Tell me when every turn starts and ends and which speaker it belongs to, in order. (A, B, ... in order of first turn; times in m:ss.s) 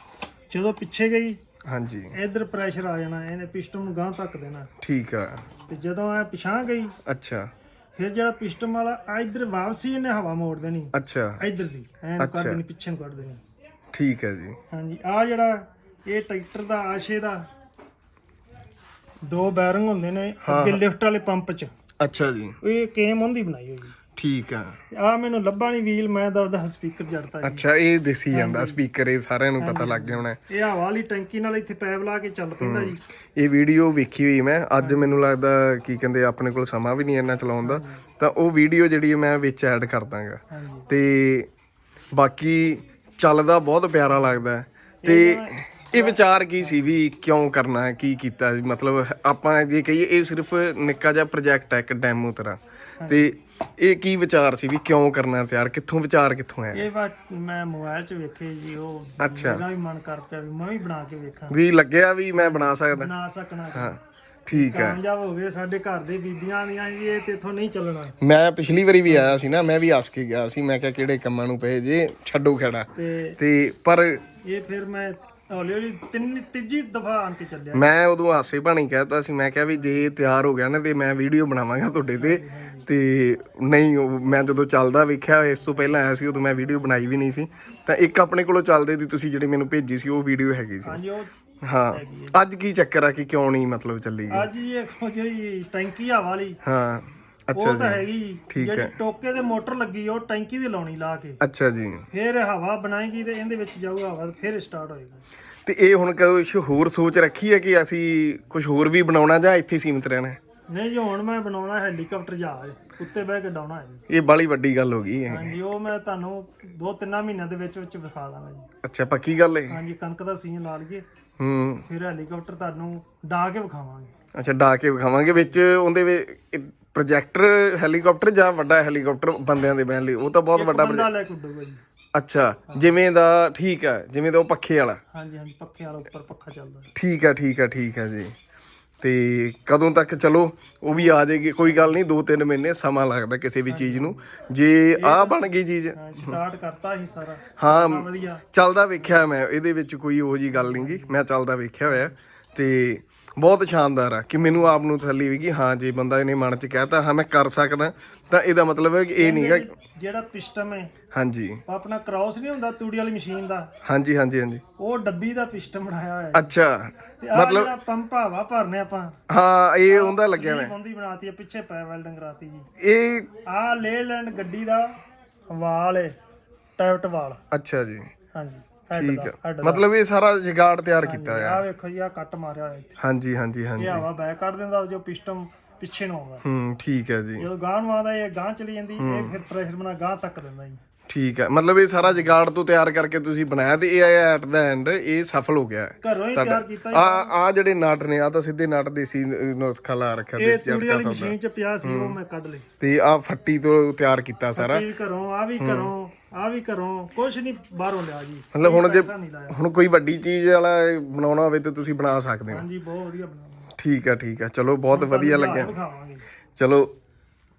0:00.5-0:01.4 A
0:01.7-0:02.1 B
0:02.1-0:04.7 A
0:04.8-0:05.4 B
0:05.7-0:07.0 A
0:07.1-0:07.5 B
0:08.0-0:13.4 A
0:11.0-0:11.4 B
0:12.2-0:12.6 B
0:13.9-0:14.6 B
0:14.7-0:17.4 A
0:19.3-0:21.7 A
0:20.4-0:20.8 B
0:22.0-0:22.6 B
0:22.6-0:24.0 A
0:24.2-0:24.8 B
0:24.9-0:27.6 A
0:27.4-0:30.4 B
0:28.3-0:28.8 A
0:29.6-0:33.0 A
0:32.6-0:41.5 B
0:34.8-0:35.2 A
0:37.6-0:38.0 A
0:40.5-0:40.9 A
0:42.1-0:56.9 B
0:45.0-0:46.9 A
0:53.0-0:53.3 A
0:56.7-1:01.6 A
0:59.2-0:59.6 B
1:01.5-1:03.1 B
1:02.4-1:03.9 A
1:03.8-1:05.0 B
1:04.5-1:08.2 A
1:08.2-1:14.2 B
1:09.1-1:09.4 A
1:13.0-1:13.4 A
1:14.4-1:17.9 A
1:17.7-1:31.0 B
1:22.2-1:22.9 A
1:30.8-1:31.3 A
1:31.7-1:34.5 B
1:31.9-1:32.4 A
1:34.3-1:36.6 A
1:36.6-1:38.9 B
1:37.6-1:41.4 A
1:41.4-1:42.0 B
1:42.1-1:45.2 A
1:45.7-1:50.4 B
1:50.7-1:54.0 A
1:54.1-1:55.6 B
1:55.3-1:58.7 A
1:58.8-1:59.8 B
1:59.7-2:01.1 A
2:01.4-2:01.8 B
2:01.9-2:04.1 A
2:04.4-2:11.1 B
2:10.5-2:11.8 A
2:12.1-2:15.0 B
2:12.7-2:12.9 A
2:15.1-2:16.9 A
2:17.0-2:18.3 B
2:19.0-2:26.4 B
2:21.0-2:22.0 A
2:23.7-2:24.2 A
2:25.0-2:28.4 A
2:27.6-2:39.7 B
2:30.5-2:31.2 A
2:39.2-2:40.9 A
2:41.1-2:41.6 B
2:41.7-2:43.7 A
2:43.8-2:44.6 B
2:44.8-2:46.5 A
2:46.3-2:47.7 B
2:47.2-2:49.2 A
2:49.3-2:50.7 B
2:49.9-2:52.7 A
2:52.8-2:53.3 B
2:53.5-2:54.9 A
2:55.5-2:56.1 A
2:56.8-2:57.4 A
2:57.5-2:58.1 B
2:58.3-2:59.8 A
2:59.0-3:01.6 B
3:01.0-3:03.0 A
3:03.0-3:04.0 B
3:03.8-3:06.4 A
3:06.4-3:07.5 B
3:07.4-3:10.8 A
3:09.0-3:09.4 B
3:11.1-3:22.2 B
3:12.0-3:12.3 A
3:16.0-3:17.3 A
3:20.4-3:22.7 A
3:22.8-3:24.8 B
3:24.6-3:29.6 A
3:25.6-3:25.9 B
3:28.5-3:32.6 B
3:32.5-3:33.7 A
3:33.8-3:35.8 B
3:34.9-3:36.2 A
3:36.6-3:36.9 B